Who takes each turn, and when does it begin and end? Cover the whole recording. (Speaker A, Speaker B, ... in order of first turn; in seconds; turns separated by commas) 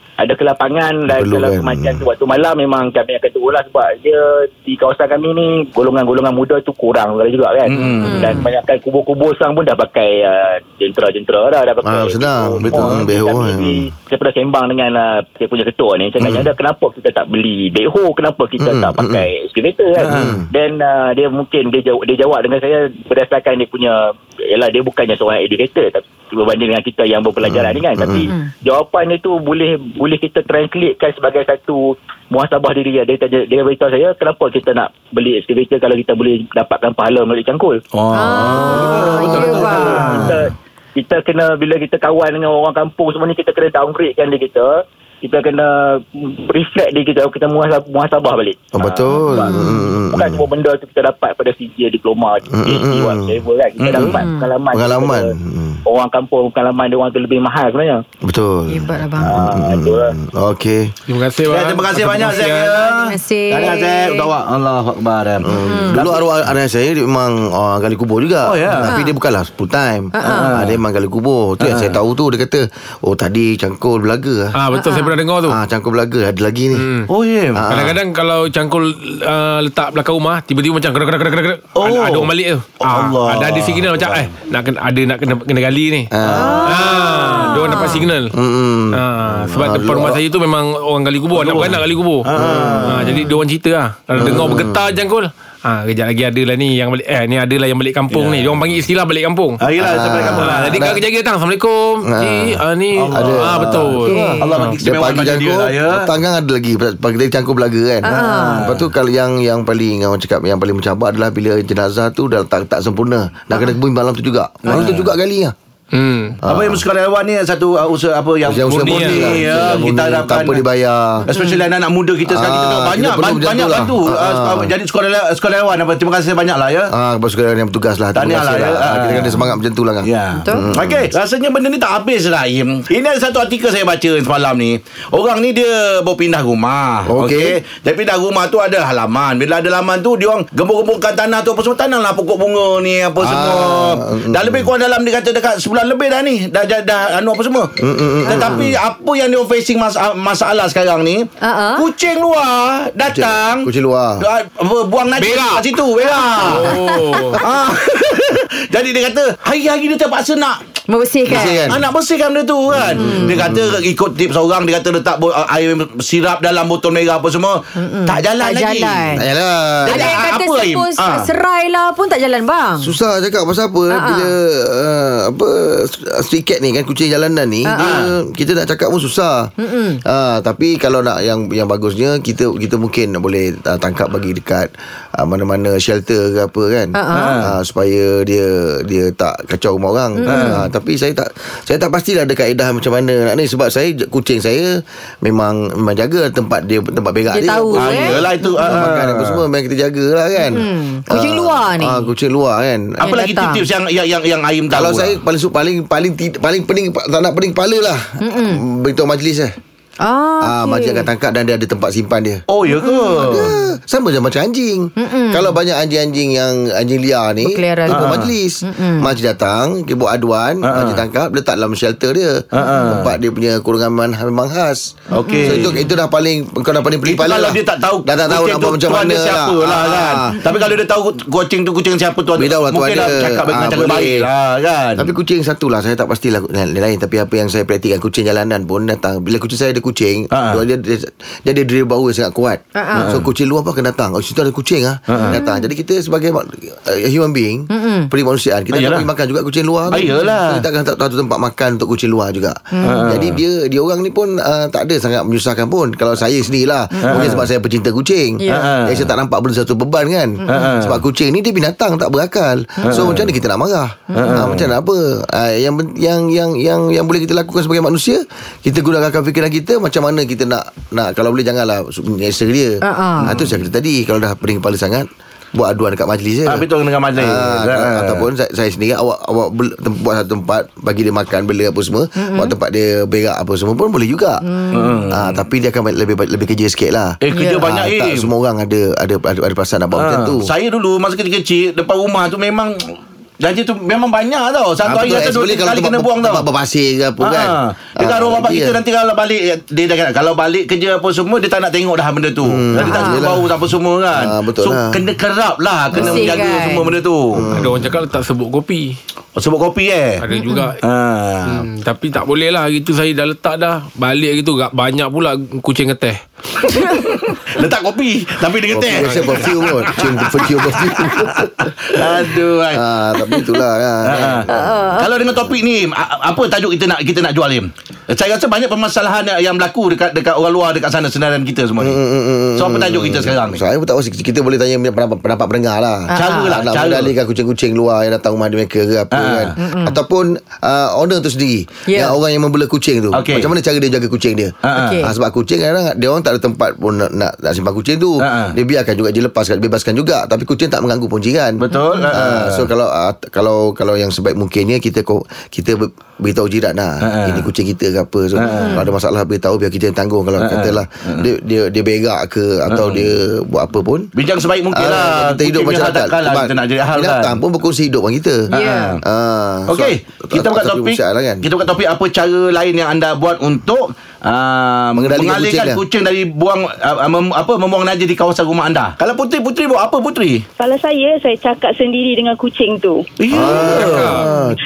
Speaker A: 0.2-37.8, Speaker B: 1.1-2.0, Speaker C: 7.7-8.3, Speaker D: 8.0-8.5, Speaker B: 11.8-13.8, Speaker C: 12.6-13.1, Speaker B: 18.6-19.2, Speaker C: 20.0-20.4, Speaker B: 20.1-20.5, Speaker B: 27.4-28.3, Speaker C: 37.9-40.5, Speaker D: 38.1-40.2, Speaker A: 39.3-55.3, Speaker B: 48.7-50.4, Speaker D: 49.2-50.0, Speaker B: 52.5-53.3, Speaker C: 53.8-54.1, Speaker D: 54.1-54.5, Speaker B: 54.7-55.8, Speaker A: 55.9-58.0, Speaker B: 58.2-60.9, Speaker D: 58.7-59.3, Speaker A: 59.2-60.1, Speaker E: 61.1-62.8, Speaker C: 61.5-66.2, Speaker D: 62.8-64.3, Speaker B: 65.4-74.5, Speaker D: 65.5-66.0, Speaker C: 68.4-68.9, Speaker D: 68.8-69.2, Speaker D: 70.1-70.6, Speaker C: 70.2-70.8, Speaker C: 71.6-72.0, Speaker E: 74.5-75.6, Speaker D: 74.7-75.2, Speaker B: 75.5-76.8, Speaker E: 76.8-77.1, Speaker C: 77.1-77.7, Speaker B: 77.5-78.0, Speaker E: 77.7-86.1, Speaker C: 81.8-84.3, Speaker B: 86.1-86.9, Speaker C: 86.2-86.6, Speaker D: 86.3-88.1, Speaker E: 86.6-88.3, Speaker B: 88.3-90.2, Speaker E: 88.9-92.3, Speaker C: 91.3-93.1, Speaker B: 92.3-93.0, Speaker E: 92.8-104.8, Speaker C: 94.2-94.6, Speaker B: 94.2-94.8, Speaker C: 98.1-98.6, Speaker C: 99.6-100.9, Speaker B: 99.8-101.0, Speaker B: 102.0-102.6, Speaker C: 103.0-106.1, Speaker B: 103.1-115.5, Speaker D: 104.0-104.7, Speaker D: 108.0-108.7, Speaker C: 108.1-108.9, Speaker D: 113.5-113.8, Speaker C: 114.6-115.1, Speaker E: 115.9-116.4, Speaker B: 116.5-116.8, Speaker C: 116.5-120.6, Speaker B: 118.4-121.3, Speaker E: 118.7-119.8, Speaker C: 121.3-126.9, Speaker D: 121.3-121.7, Speaker B: 122.3-124.7, Speaker B: 126.9-131.1, Speaker C: 128.1-129.4, Speaker C: 130.0-147.7, Speaker D: 130.4-130.7, Speaker B: 137.1-137.6, Speaker B: 143.2-144.7, Speaker B: 147.8-148.7, Speaker C: 148.2-151.2, Speaker D: 148.3-148.7, Speaker D: 151.4-151.9, Speaker C: 151.8-153.7, Speaker B: 153.1-154.2, Speaker C: 154.2-156.8, Speaker E: 155.2-155.8, Speaker E: 156.4-157.4, Speaker C: 157.4-160.6, Speaker D: 160.9-161.8, Speaker B: 161.2-161.8, Speaker C: 161.3-169.2, Speaker B: 162.7-163.8, Speaker D: 162.9-163.5, Speaker D: 167.8-169.2, Speaker B: 169.1-170.2, Speaker C: 169.8-171.3, Speaker D: 169.8-172.9, Speaker B: 172.8-179.5, Speaker D: 173.9-174.3, Speaker D: 177.7-178.0, Speaker C: 177.8-178.1, Speaker D: 179.6-180.0, Speaker B: 180.0-194.7, Speaker D: 186.9-187.4, Speaker C: 187.1-187.5, Speaker D: 190.2-190.7, Speaker C: 190.2-190.6, Speaker B: 195.2-203.1, Speaker D: 197.3-198.8, Speaker C: 197.7-199.4, Speaker D: 200.3-202.1, Speaker C: 203.0-205.2, Speaker D: 203.0-203.6, Speaker B: 204.7-209.5, Speaker D: 208.2-208.6, Speaker D: 210.0-211.1, Speaker B: 210.4-212.4, Speaker C: 212.5-213.5, Speaker D: 212.7-213.7, Speaker B: 213.2-230.4, Speaker D: 215.0-215.6, Speaker D: 217.4-219.1, Speaker C: 217.9-218.3, Speaker C: 220.6-221.0, Speaker C: 222.5-223.1, Speaker D: 222.6-223.0, Speaker C: 225.1-225.8, Speaker D: 225.1-225.9, Speaker C: 227.0-235.1, Speaker D: 230.4-230.7, Speaker B: 232.3-234.3, Speaker B: 235.0-276.6, Speaker C: 240.3-240.6, Speaker D: 242.7-243.2, Speaker C: 242.9-243.3, Speaker C: 245.1-245.4, Speaker D: 245.2-245.7, Speaker D: 247.7-248.1, Speaker C: 248.7-249.1, Speaker C: 249.9-250.6, Speaker D: 252.7-253.2, Speaker C: 252.8-253.4, Speaker D: 257.0-257.4, Speaker C: 257.0-257.4, Speaker D: 258.4-258.8, Speaker C: 258.5-259.1, Speaker D: 260.4-260.8, Speaker C: 260.5-261.0, Speaker D: 262.8-263.2, Speaker C: 262.8-263.3, Speaker D: 264.1-264.6, Speaker C: 264.1-264.7, Speaker D: 272.8-273.4, Speaker C: 273.2-273.6, Speaker C: 276.5-278.2, Speaker B: 277.2-284.4, Speaker D: 282.2-282.5, Speaker D: 284.4-285.1, Speaker C: 284.7-285.4, Speaker B: 285.1-290.4, Speaker C: 287.2-288.3, Speaker D: 287.3-287.7, Speaker C: 289.9-296.4, Speaker B: 294.8-298.8, Speaker C: 297.2-307.4, Speaker B: 302.4-303.5, Speaker D: 302.8-303.3, Speaker B: 304.1-305.0, Speaker B: 305.9-306.4, Speaker D: 305.9-306.9, Speaker B: 307.4-307.8, Speaker E: 307.5-308.9, Speaker C: 309.4-310.2, Speaker E: 310.2-310.8, Speaker D: 310.3-310.7, Speaker C: 310.8-311.6, Speaker E: 311.5-316.2, Speaker D: 316.7-317.0, Speaker C: 316.9-322.8, Speaker B: 318.7-321.5, Speaker E: 319.0-319.4, Speaker B: 322.7-324.7, Speaker C: 324.1-332.0, Speaker D: 324.5-325.1, Speaker B: 331.8-364.1, Speaker C: 332.6-333.6, Speaker D: 336.1-336.6, Speaker C: 336.1-337.1, Speaker C: 339.1-339.5, Speaker D: 339.6-340.0, Speaker D: 341.9-342.1, Speaker C: 343.1-343.5, Speaker C: 344.6-345.0, Speaker D: 344.7-345.1, Speaker C: 348.2-348.6, Speaker C: 351.6-352.7, Speaker D: 351.7-352.1, Speaker C: 357.0-357.4, Speaker C: 358.4-358.8, Speaker D: 358.4-358.9, Speaker C: 360.4-361.3, Speaker C: 362.7-363.1, Speaker C: 364.1-367.4, Speaker B: 364.7-368.4, Speaker D: 368.5-369.0, Speaker C: 368.6-369.0, Speaker B: 369.0-371.4, Speaker C: 369.7-380.4, Speaker B: 374.9-375.8, Speaker F: 380.6-383.8, Speaker C: 383.2-384.1, Speaker B: 383.3-384.6, Speaker E: 383.6-384.3